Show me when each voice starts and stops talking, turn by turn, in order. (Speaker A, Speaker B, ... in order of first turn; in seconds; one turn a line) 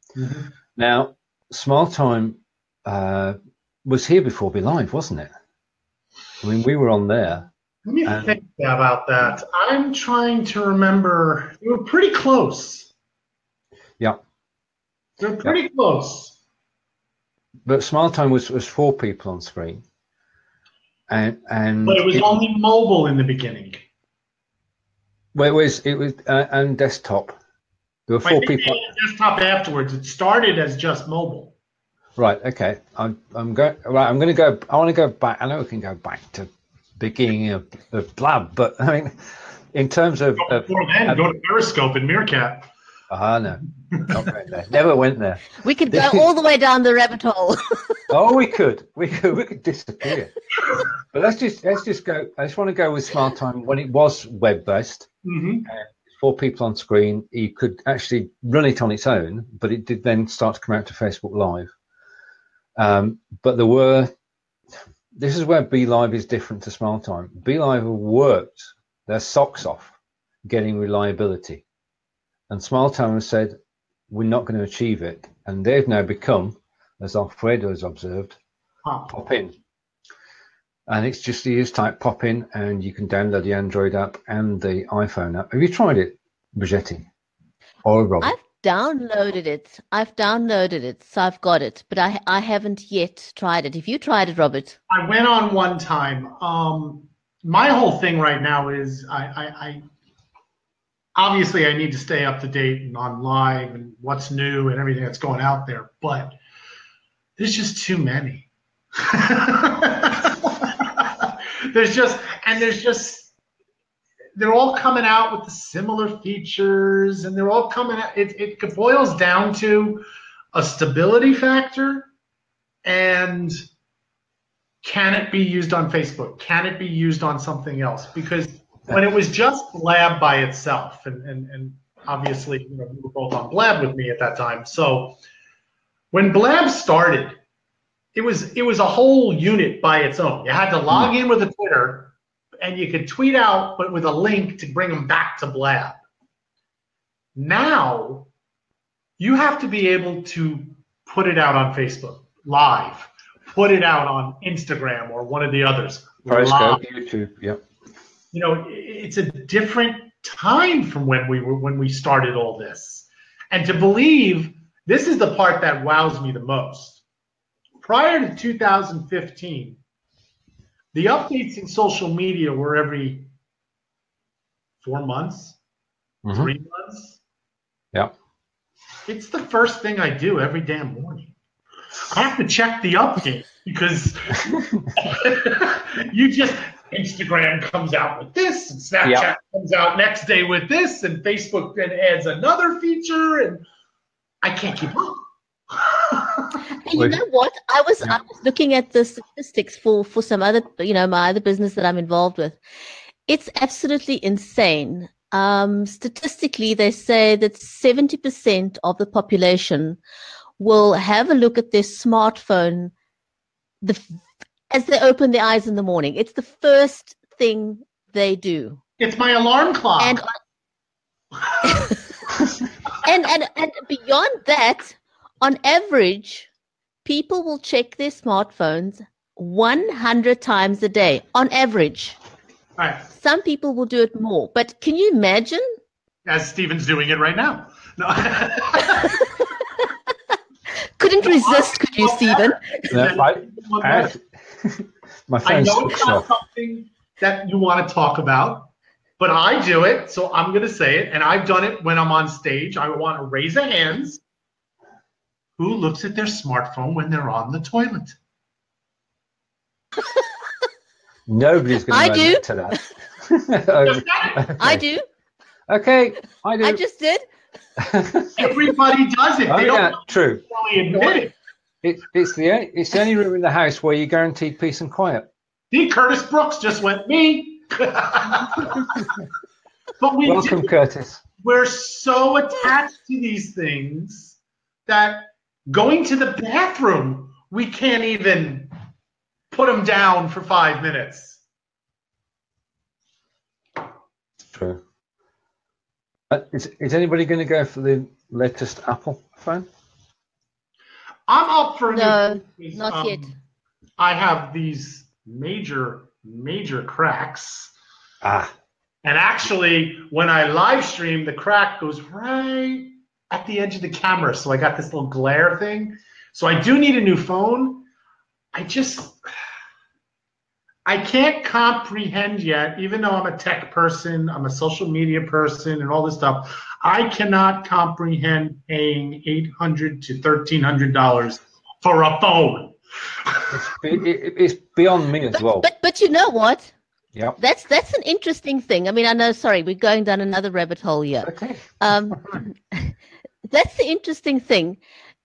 Speaker A: 0.1-0.5
Speaker B: 0.8-5.3
Speaker B: 6.4-7.5
Speaker A: 7.8-12.9
Speaker B: 8.0-8.3
Speaker A: 15.2-16.4
Speaker B: 17.6-19.8
Speaker B: 21.1-22.2
Speaker A: 21.8-23.8
Speaker B: 25.3-27.4
Speaker B: 28.1-28.8
Speaker A: 28.2-31.5
Speaker B: 32.2-41.2
Speaker A: 40.4-42.7
Speaker B: 43.1-46.3
Speaker A: 43.9-44.2
Speaker C: 45.6-48.0
Speaker B: 48.1-50.3
Speaker B: 51.1-55.1
Speaker A: 55.2-55.7
Speaker B: 55.6-61.7
Speaker B: 62.8-64.1
Speaker B: 65.2-69.9
Speaker B: 70.5-71.6
Speaker B: 72.5-73.5
Speaker B: 74.1-78.4
Speaker A: 78.8-79.1
Speaker B: 79.1-79.5
Speaker B: 80.9-87.1
Speaker B: 87.8-88.3
Speaker C: 88.2-94.8
Speaker A: 94.9-99.8
Speaker A: 101.2-106.4
Speaker A: 107.4-113.3
Speaker A: 114.3-122.1
Speaker A: 122.8-123.6
Speaker A: 124.8-135.2
Speaker A: 136.1-137.4
Speaker A: 138.1-146.0
Speaker A: 147.3-148.3
Speaker A: 149.2-156.8
Speaker B: 156.3-157.6
Speaker A: 158.3-167.0
Speaker A: 167.8-169.8
Speaker A: 170.9-173.3
Speaker A: 174.8-175.6
Speaker B: 176.2-176.5
Speaker A: 176.3-177.2
Speaker A: 179.1-181.3
Speaker A: 182.1-184.4
Speaker A: 184.9-193.6
Speaker B: 189.0-189.3
Speaker A: 194.4-196.6
Speaker C: 196.8-202.6
Speaker C: 203.3-210.0
Speaker C: 210.6-212.9
Speaker C: 213.8-214.2
Speaker C: 214.7-218.8
Speaker A: 219.0-220.2
Speaker C: 220.0-220.3
Speaker C: 223.0-226.5
Speaker C: 227.0-232.2
Speaker A: 232.8-233.1
Speaker C: 233.1-235.7
Speaker A: 236.2-239.2
Speaker C: 241.0-242.9
Speaker A: 241.2-244.1
Speaker B: 242.9-246.3
Speaker A: 245.4-254.2
Speaker A: 255.6-258.1
Speaker B: 261.3-264.8
Speaker C: 261.9-262.8
Speaker A: 263.8-264.4
Speaker C: 264.6-265.0
Speaker B: 265.7-266.8
Speaker C: 266.6-267.2
Speaker B: 267.8-268.3
Speaker A: 268.4-271.3
Speaker B: 269.5-270.4
Speaker B: 271.8-275.3
Speaker A: 275.7-279.0
Speaker A: 280.0-280.7
Speaker B: 280.2-281.2
Speaker A: 281.4-288.7
Speaker A: 289.5-291.4
Speaker B: 294.5-294.8
Speaker B: 296.3-299.7
Speaker A: 301.3-303.3
Speaker C: 301.9-303.3
Speaker A: 304.0-307.7
Speaker B: 308.2-308.5
Speaker A: 309.0-317.9
Speaker A: 318.5-319.2
Speaker A: 320.9-333.5
Speaker B: 333.5-335.7
Speaker C: 335.3-336.7
Speaker C: 337.4-342.9
Speaker B: 341.2-342.2
Speaker C: 343.5-344.8